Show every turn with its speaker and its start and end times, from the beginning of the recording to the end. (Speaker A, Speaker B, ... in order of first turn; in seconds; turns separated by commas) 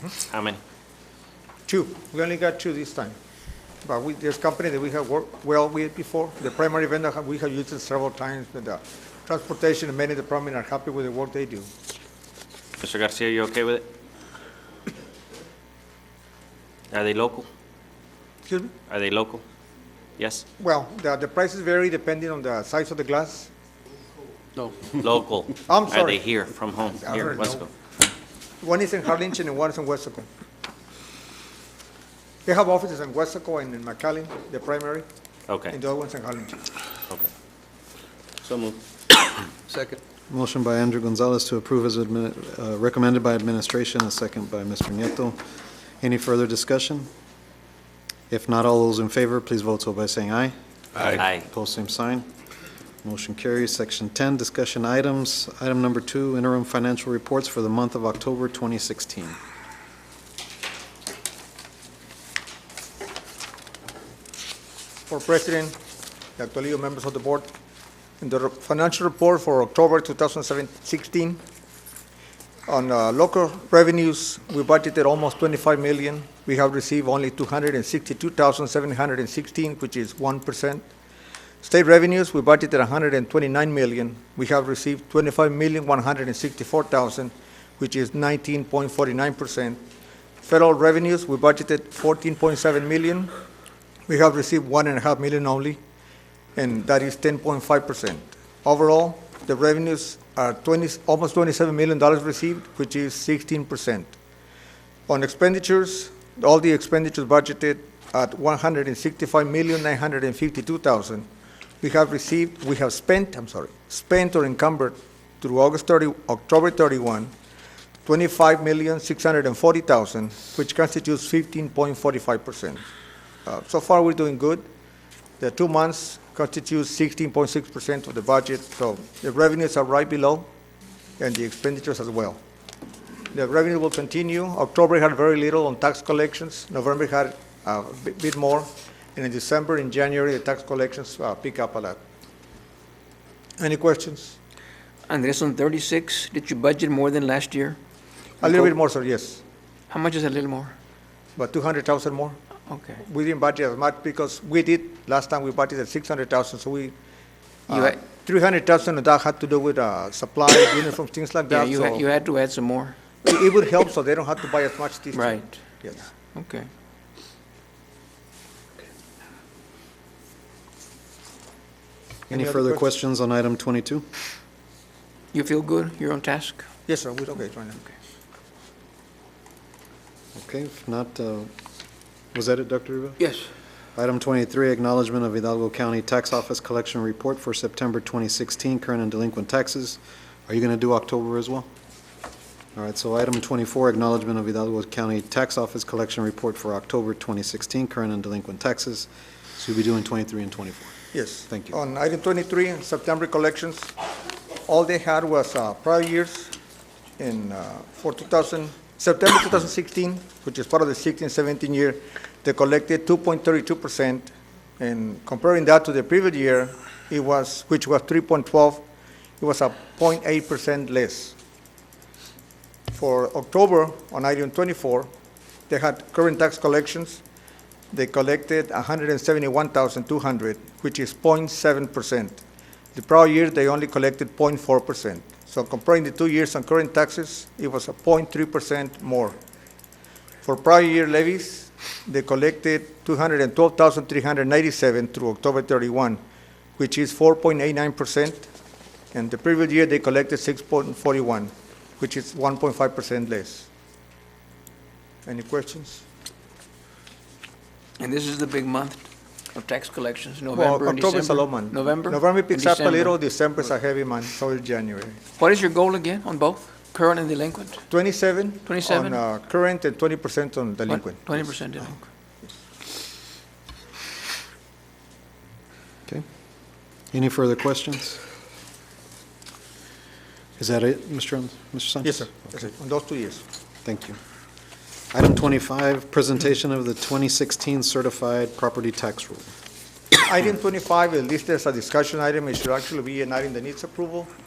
Speaker A: 0.2-0.6, Speaker B: 1.6-3.2, Speaker B: 3.8-11.7, Speaker A: 12.8-13.9, Speaker A: 16.9-17.5, Speaker B: 18.4-18.7, Speaker A: 18.9-19.4, Speaker A: 20.2-20.4, Speaker B: 20.6-23.5, Speaker A: 24.8-27.7, Speaker B: 25.7-26.2, Speaker B: 27.0-27.7, Speaker B: 28.6-30.3, Speaker B: 32.5-35.0, Speaker A: 35.5-35.8, Speaker B: 35.7-36.6, Speaker A: 38.4-38.8, Speaker C: 40.3-45.4, Speaker C: 46.0-47.1, Speaker C: 48.3-50.5, Speaker A: 51.1-51.5, Speaker C: 51.1-52.3, Speaker C: 53.0-59.4, Speaker B: 65.1-65.8, Speaker B: 66.4-67.5, Speaker B: 68.2-71.4, Speaker B: 72.7-80.9, Speaker B: 81.6-89.8, Speaker B: 90.4-93.3, Speaker B: 94.1-95.8, Speaker B: 96.6-104.1, Speaker B: 105.1-111.3, Speaker B: 111.8-117.3, Speaker B: 118.1-122.9, Speaker B: 123.5-124.7, Speaker B: 125.4-130.5, Speaker B: 131.2-132.4, Speaker B: 133.3-142.0, Speaker B: 143.6-144.3, Speaker D: 145.1-147.8, Speaker D: 148.4-148.7, Speaker B: 148.4-149.4, Speaker D: 149.9-150.7, Speaker B: 151.4-152.4, Speaker D: 152.7-153.0, Speaker B: 153.0-156.9, Speaker B: 157.7-162.0, Speaker D: 157.7-158.0, Speaker D: 161.5-162.9, Speaker B: 163.2-166.0, Speaker D: 165.1-165.6, Speaker D: 166.3-166.7, Speaker C: 172.3-174.0, Speaker B: 172.3-172.8, Speaker D: 175.3-176.7, Speaker B: 176.9-177.8, Speaker C: 180.3-181.5, Speaker C: 182.3-183.2, Speaker C: 184.0-191.7, Speaker C: 192.8-200.9, Speaker B: 201.1-203.9, Speaker C: 201.5-201.8, Speaker B: 204.7-206.5, Speaker B: 207.2-218.8, Speaker B: 219.4-221.3, Speaker B: 222.9-225.1, Speaker B: 225.7-227.2, Speaker B: 227.9-232.4, Speaker B: 232.9-239.4, Speaker B: 240.4-246.2, Speaker B: 246.8-248.5, Speaker B: 249.1-253.7, Speaker B: 255.2-256.0, Speaker D: 258.0-263.1, Speaker B: 260.5-265.2, Speaker D: 265.4-267.8, Speaker B: 267.9-271.8, Speaker D: 268.6-269.2, Speaker D: 270.9-272.0, Speaker C: 277.1-278.2, Speaker C: 280.6-282.3, Speaker B: 282.0-283.4, Speaker C: 283.9-284.2, Speaker C: 285.1-289.5, Speaker B: 290.2-294.3